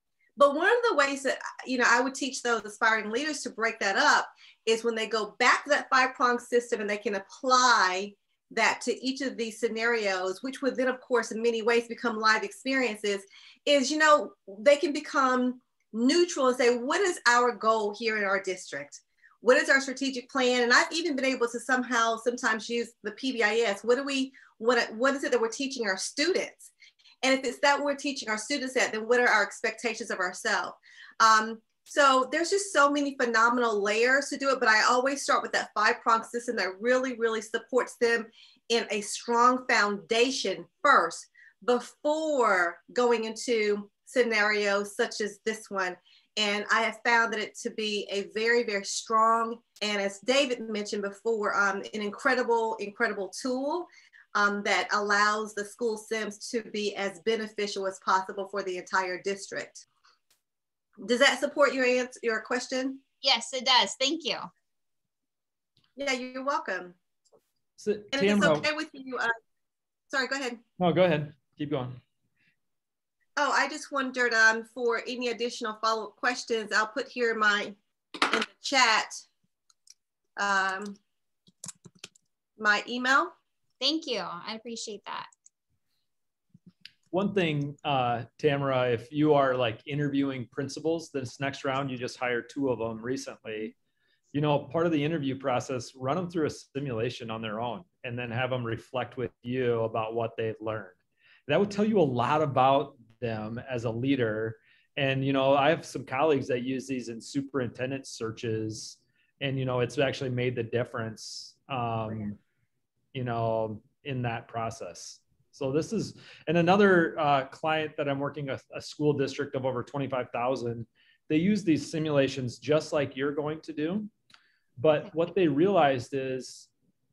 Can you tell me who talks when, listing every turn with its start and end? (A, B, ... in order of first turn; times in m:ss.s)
0:00.4-0:26.7 A
0:27.2-0:59.8 A
1:01.0-1:03.0 A
1:03.2-1:04.5 B
1:06.0-1:06.9 A
1:07.8-1:08.7 C
1:08.1-1:09.3 A
1:10.1-1:10.6 A
1:10.8-1:12.0 C
1:13.4-1:19.2 A
1:20.4-1:21.0 A
1:22.6-1:23.3 A
1:23.8-1:25.3 B
1:27.1-1:33.7 C
1:34.3-1:41.0 C
1:41.5-1:52.4 C
1:53.1-2:04.1 C
2:04.8-2:06.7 C